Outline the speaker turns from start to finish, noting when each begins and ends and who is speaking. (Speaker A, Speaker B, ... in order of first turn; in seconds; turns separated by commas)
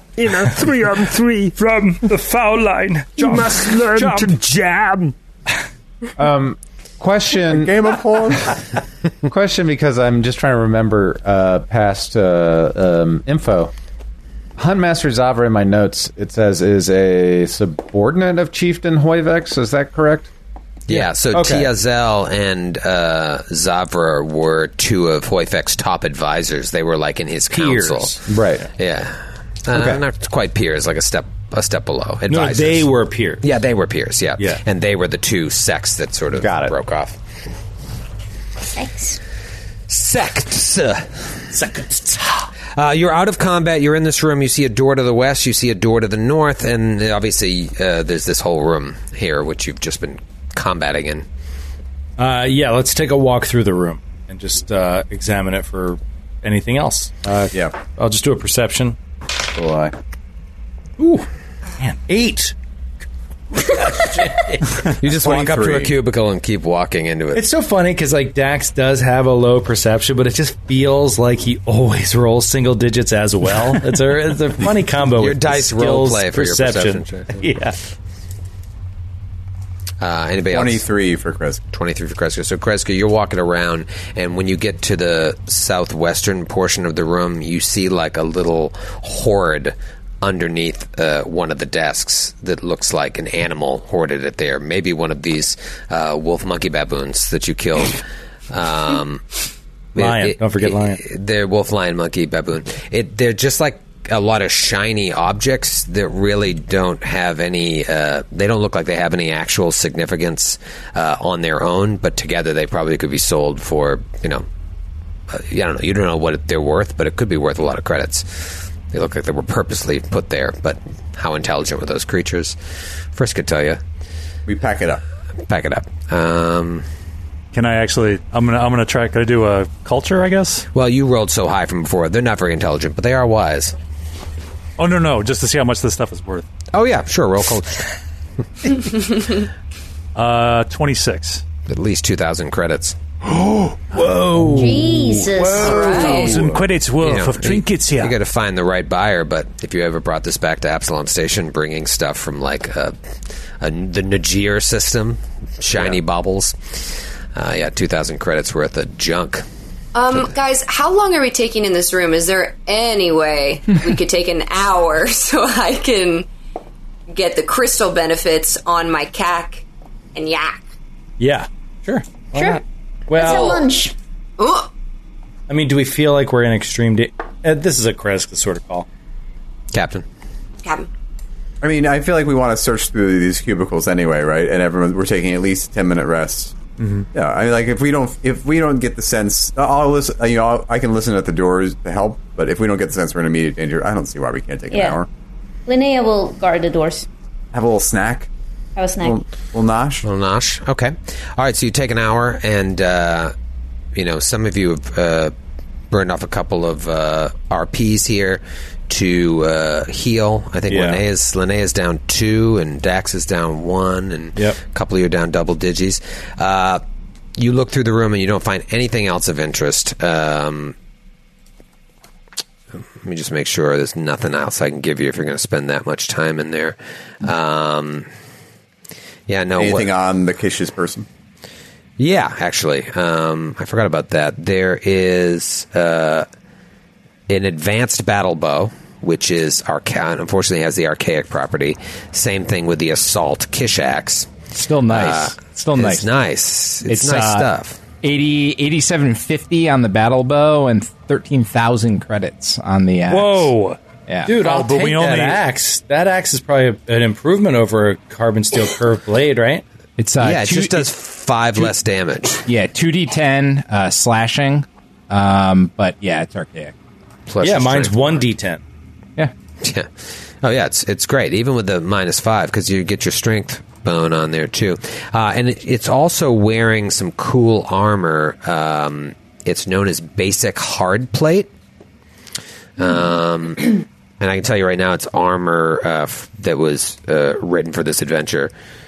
Speaker A: 0.2-5.1, Speaker B: 6.2-7.7, Speaker C: 7.5-8.6, Speaker B: 9.2-13.7, Speaker B: 14.6-20.3, Speaker D: 20.9-28.2, Speaker E: 27.5-28.2, Speaker B: 28.3-28.7, Speaker D: 28.8-37.2, Speaker B: 29.7-30.0, Speaker E: 32.3-33.4, Speaker B: 36.4-36.7, Speaker F: 38.7-39.2, Speaker D: 39.9-41.5, Speaker E: 41.5-42.5, Speaker D: 42.7-51.3, Speaker E: 52.2-59.0, Speaker C: 59.5-60.0, Speaker E: 61.0-62.5, Speaker E: 63.6-64.8, Speaker D: 65.0-67.5, Speaker C: 65.0-66.0, Speaker E: 67.3-77.8, Speaker D: 75.2-77.5, Speaker D: 80.0-80.8, Speaker C: 80.5-81.6, Speaker D: 81.7-99.2, Speaker D: 100.0-114.5, Speaker E: 100.0-101.0, Speaker D: 115.3-122.6, Speaker D: 123.1-123.8, Speaker C: 124.5-125.0, Speaker D: 125.5-126.9, Speaker G: 127.5-130.7, Speaker D: 130.7-133.8, Speaker G: 134.8-136.5, Speaker D: 136.7-137.9, Speaker G: 140.2-141.4, Speaker D: 141.7-143.0, Speaker G: 143.9-144.4, Speaker E: 143.9-145.8, Speaker F: 144.5-146.1, Speaker G: 145.3-148.2, Speaker H: 145.6-146.4, Speaker D: 147.0-152.9, Speaker D: 153.6-159.4, Speaker H: 159.9-166.3, Speaker H: 167.1-170.7, Speaker E: 171.2-173.6, Speaker F: 172.3-173.9, Speaker H: 173.1-173.7, Speaker H: 174.4-174.7, Speaker E: 175.5-178.9, Speaker D: 179.7-180.1, Speaker H: 180.6-180.9, Speaker C: 181.6-186.6, Speaker G: 186.8-187.1, Speaker C: 187.1-195.1, Speaker F: 194.7-195.0, Speaker F: 195.7-197.1, Speaker C: 197.5-198.3, Speaker F: 198.8-199.2, Speaker C: 199.0-200.1, Speaker D: 200.0-203.3, Speaker D: 203.9-205.3, Speaker D: 205.9-216.8, Speaker E: 210.7-211.0, Speaker D: 217.4-220.8, Speaker D: 222.8-228.1, Speaker D: 229.3-229.9, Speaker C: 229.6-231.1, Speaker D: 232.0-236.3, Speaker D: 237.3-244.3, Speaker I: 244.5-246.1, Speaker D: 244.9-247.8, Speaker I: 246.9-247.5, Speaker I: 248.0-253.5, Speaker G: 253.1-253.8, Speaker E: 254.3-259.6, Speaker G: 254.4-255.4, Speaker I: 260.0-260.9, Speaker D: 260.2-262.4, Speaker I: 262.5-266.7, Speaker D: 267.3-268.3, Speaker E: 267.4-268.6, Speaker D: 269.6-281.5, Speaker D: 282.8-288.5